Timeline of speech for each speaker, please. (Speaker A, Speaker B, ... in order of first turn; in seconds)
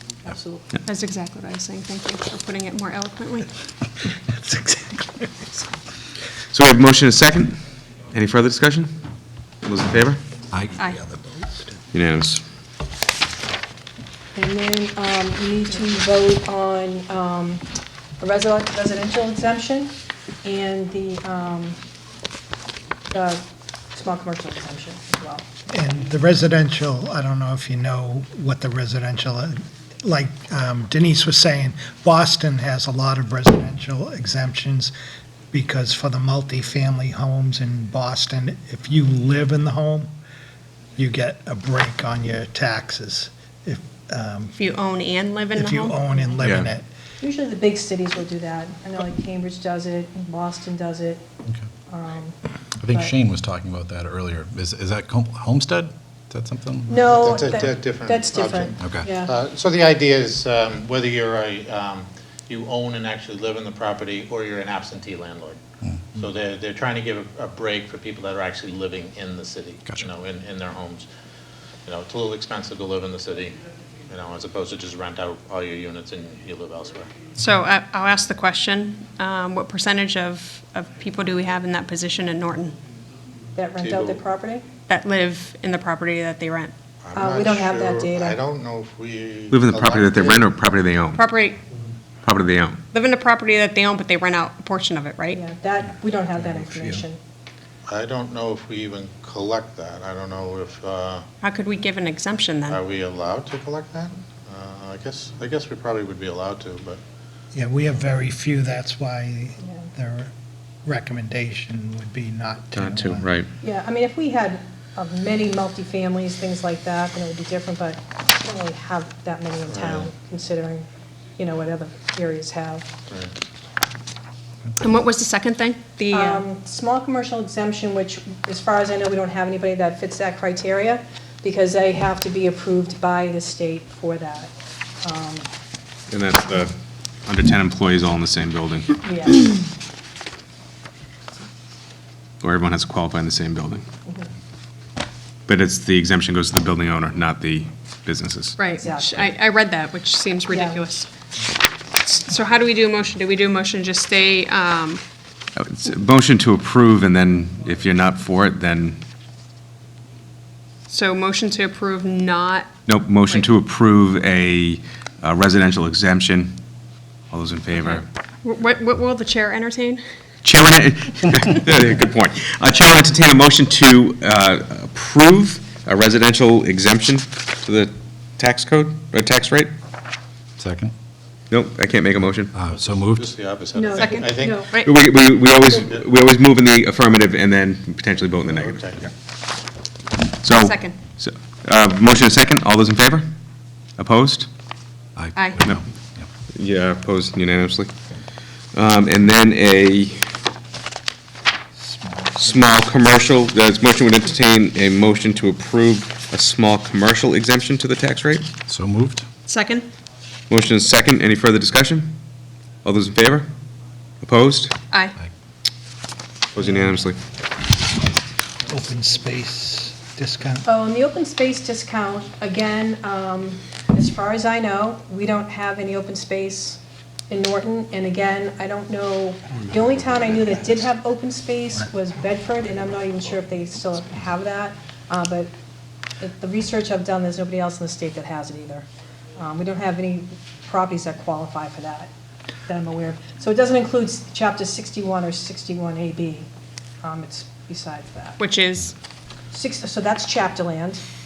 Speaker A: 0.2-0.8, 14.3-17.6, 18.2-21.8, 23.1-23.4, 23.9-25.4, 47.2-51.2, 51.9-52.4, 52.9-53.1, 56.9-59.3, 83.5-84.7, 87.1-88.4, 95.3-97.2, 109.6-109.9, 113.6-120.8, 121.4-122.9, 126.1-135.5, 139.0-139.5, 148.8-149.3, 150.5-150.8, 183.7-184.7, 220.6-235.5, 236.2-242.1, 242.7-246.5, 247.0-248.4, 249.5-251.0
Speaker B: 0.8-3.5, 44.6-46.0, 77.4-82.8, 84.9-86.7, 91.2-91.6, 92.9-95.4, 101.4-102.8, 124.8-126.4, 148.6-151.1, 152.0-155.0, 160.9-162.8, 167.8-170.0, 184.0-184.9, 190.6-191.0, 209.5-209.9, 214.9-215.1, 248.4-248.9
Speaker C: 4.6-5.0, 25.7-34.9, 35.5-40.1, 41.0-44.5, 45.5-46.9, 107.5-110.3, 110.8-113.2, 201.8-202.6, 218.7-220.7
Speaker D: 6.5-7.6, 8.1-9.0, 9.6-10.2, 11.9-12.4, 46.4-46.7, 89.5-91.2, 92.2-92.8, 112.7-113.5, 136.1-136.7, 137.2-139.0, 142.4-143.8, 145.5-148.6, 155.6-159.0, 162.8-166.6, 167.3-168.1, 170.4-179.7, 181.5-182.6, 184.8-189.1, 190.4-193.3, 194.0-194.5, 196.5-197.9, 198.7-200.3, 202.3-208.5, 210.5-212.2, 212.8-213.5, 214.2-214.8, 216.5-217.2
Speaker E: 52.8-57.0, 180.6-180.9, 182.6-183.2, 195.2-196.3, 208.7-209.3
Speaker F: 56.9-65.6, 66.1-71.1, 71.8-73.6, 74.1-77.1, 83.8-84.2, 87.0-90.4, 97.9-101.2, 102.7-107.0, 119.7-120.1, 182.7-184.7, 185.7-186.1, 188.5-189.1